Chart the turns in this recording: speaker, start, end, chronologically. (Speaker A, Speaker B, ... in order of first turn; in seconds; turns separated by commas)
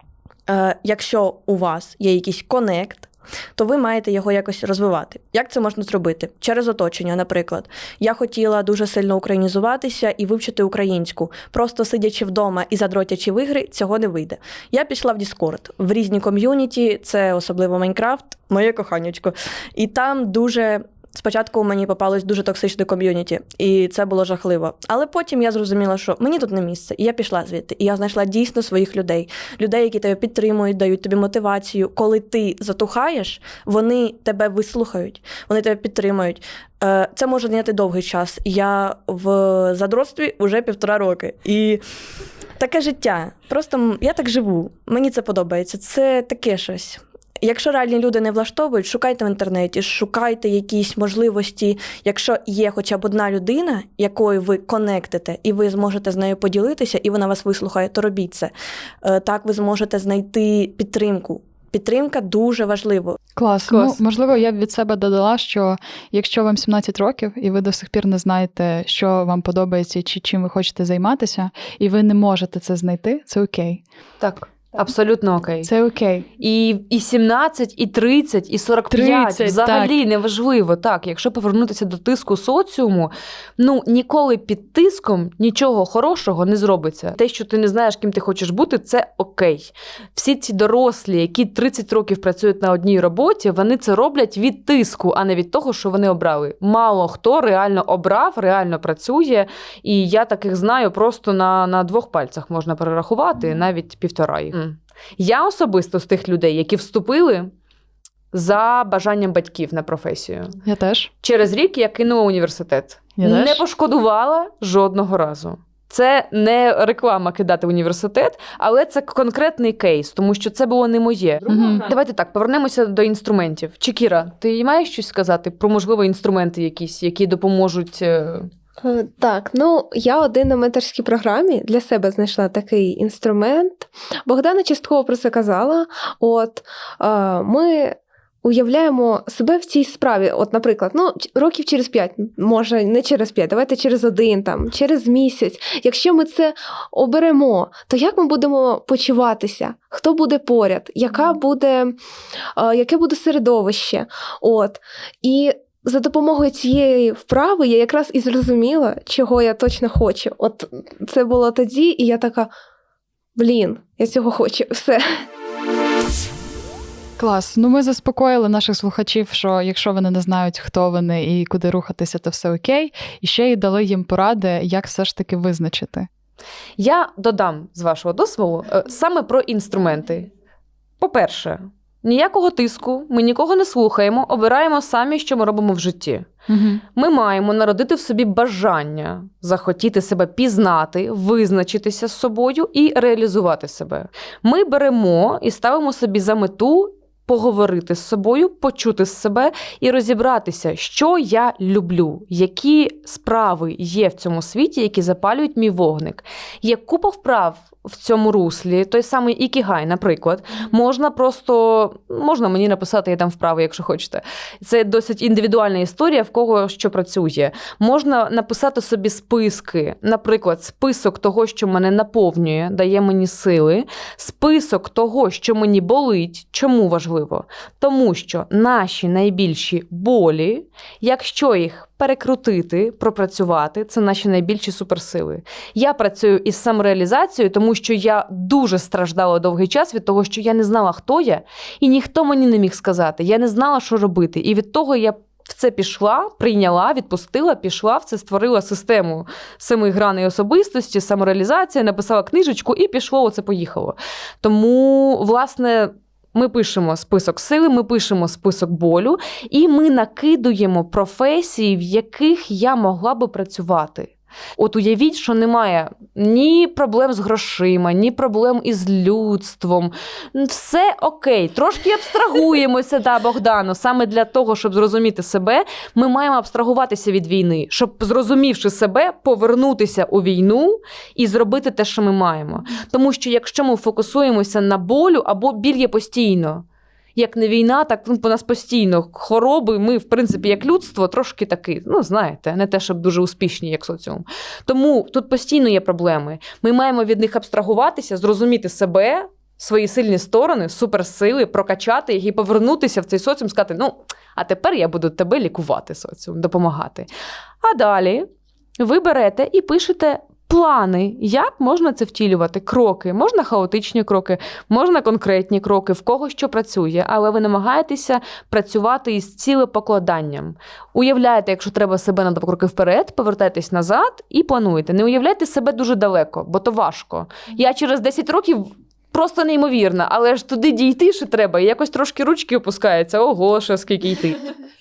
Speaker A: 0.5-41.8, Speaker A: 42.6-63.2, Speaker B: 63.4-73.8, Speaker C: 63.7-64.0, Speaker C: 74.2-75.7, Speaker B: 75.6-76.3, Speaker C: 76.4-107.5, Speaker B: 78.9-80.0, Speaker C: 108.3-110.6, Speaker B: 110.6-111.1, Speaker C: 111.2-128.5, Speaker B: 113.2-113.6, Speaker B: 121.5-121.8, Speaker D: 128.8-151.9, Speaker D: 152.6-162.5, Speaker D: 163.3-165.2, Speaker B: 167.2-176.1, Speaker C: 176.8-180.3, Speaker C: 181.0-186.3, Speaker B: 186.5-186.8, Speaker C: 186.9-307.1, Speaker C: 307.6-308.3, Speaker C: 308.8-334.4